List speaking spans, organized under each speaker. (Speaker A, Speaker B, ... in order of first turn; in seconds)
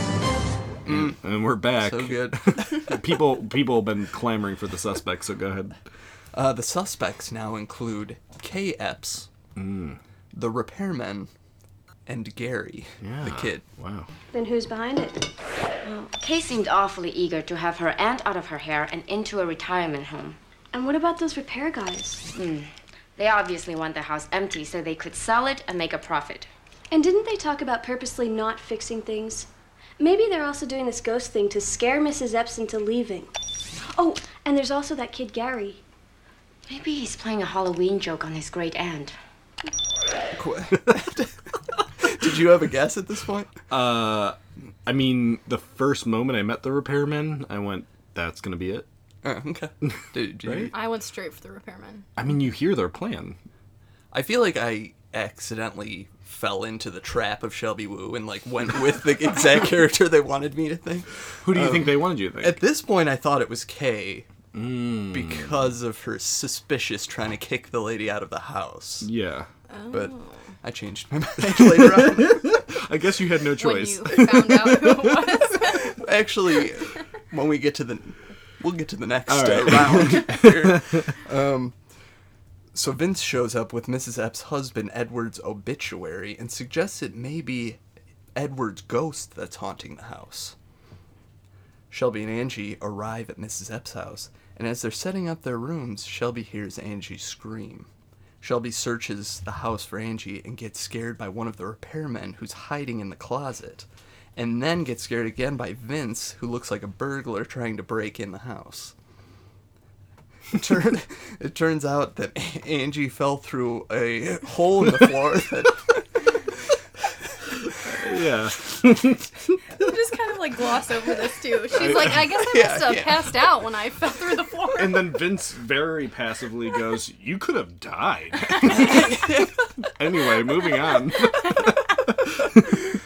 Speaker A: 0.8-3.0, 6.3-9.3, 10.3-11.3, 12.1-13.6, 40.3-43.5, 49.2-50.8, 54.1-64.3, 65.1-69.1, 69.9-72.6, 75.9-81.8, 82.7-87.8, 88.3-90.5, 91.9-97.9, 98.4-109.0, 110.5-116.5, 121.7-123.4, 128.7-129.5
Speaker B: 0.9-5.8, 9.6-10.0, 13.0-14.1, 43.7-48.9, 50.5-50.7, 52.2-53.4, 61.4-62.6, 64.5-65.6, 69.0-69.5, 71.6-75.5, 79.3-81.1, 117.7-119.6, 124.8-132.8
Speaker C: 14.3-15.3, 20.7-22.3, 26.9-33.3, 33.9-35.8
Speaker D: 15.8-20.4, 22.3-26.5, 36.7-39.2
Speaker E: 50.7-52.1, 69.7-70.5, 73.6-76.0, 119.8-125.2